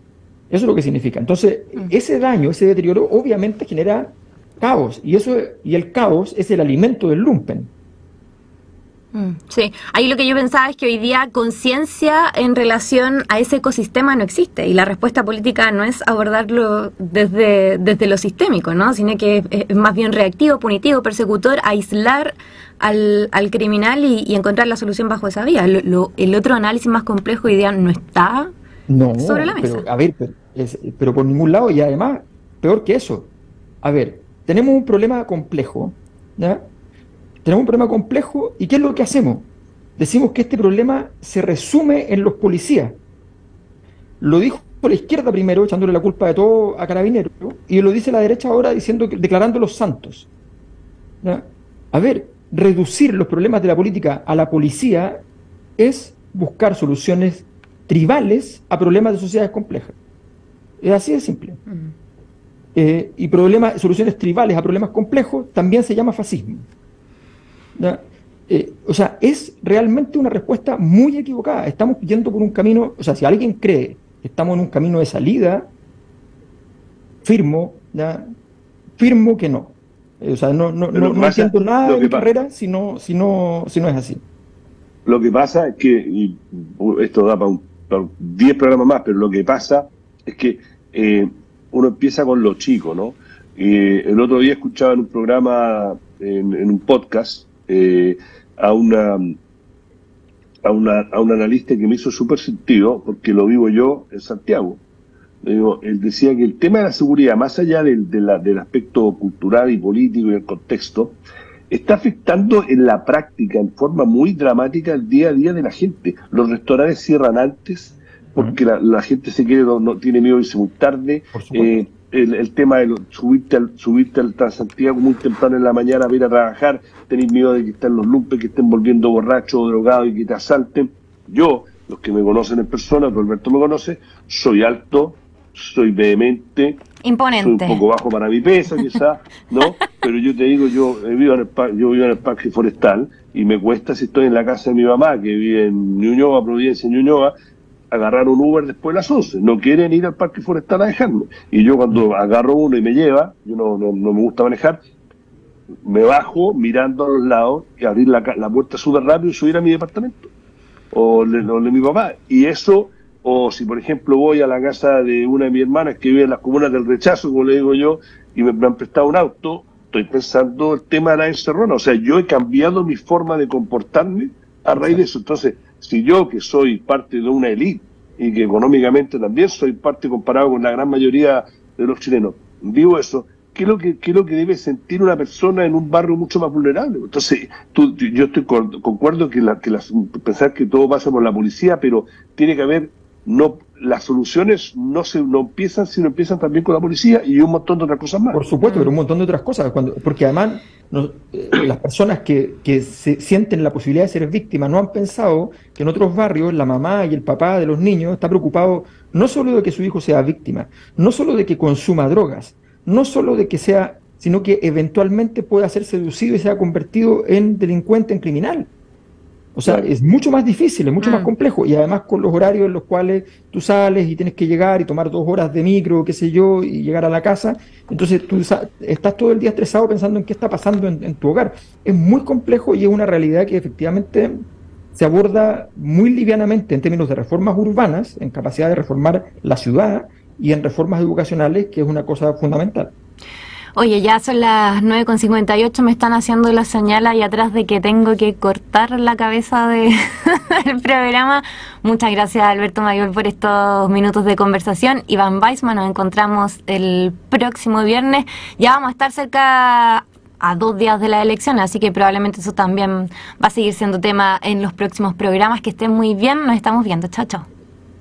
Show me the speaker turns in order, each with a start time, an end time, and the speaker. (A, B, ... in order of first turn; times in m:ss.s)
0:00.5-0:07.7 A
0:09.1-0:28.5 B
0:28.9-0:33.3 A
0:29.2-0:29.8 B
0:33.8-0:36.6 A
0:37.4-0:43.0 A
0:44.2-0:50.3 A
0:51.2-0:55.2 A
0:55.8-1:00.0 A
1:00.8-1:01.6 A
1:02.7-1:06.7 A
1:07.8-1:15.7 A
1:17.2-1:18.3 A
1:19.0-1:24.2 A
1:20.9-1:22.3 C
1:25.0-1:39.4 C
1:40.6-1:44.8 C
1:45.4-1:51.2 C
1:51.7-2:16.8 C
2:01.3-2:01.7 A
2:17.0-2:17.8 B
2:17.4-2:27.3 C
2:27.9-2:34.8 C
2:35.8-2:40.3 C
2:40.9-3:18.4 C
2:54.7-2:55.0 A
3:18.3-3:38.7 A
3:18.6-3:18.9 B
3:39.5-3:54.4 A
3:41.0-3:41.3 B
3:54.9-4:02.9 A
4:03.8-4:27.5 B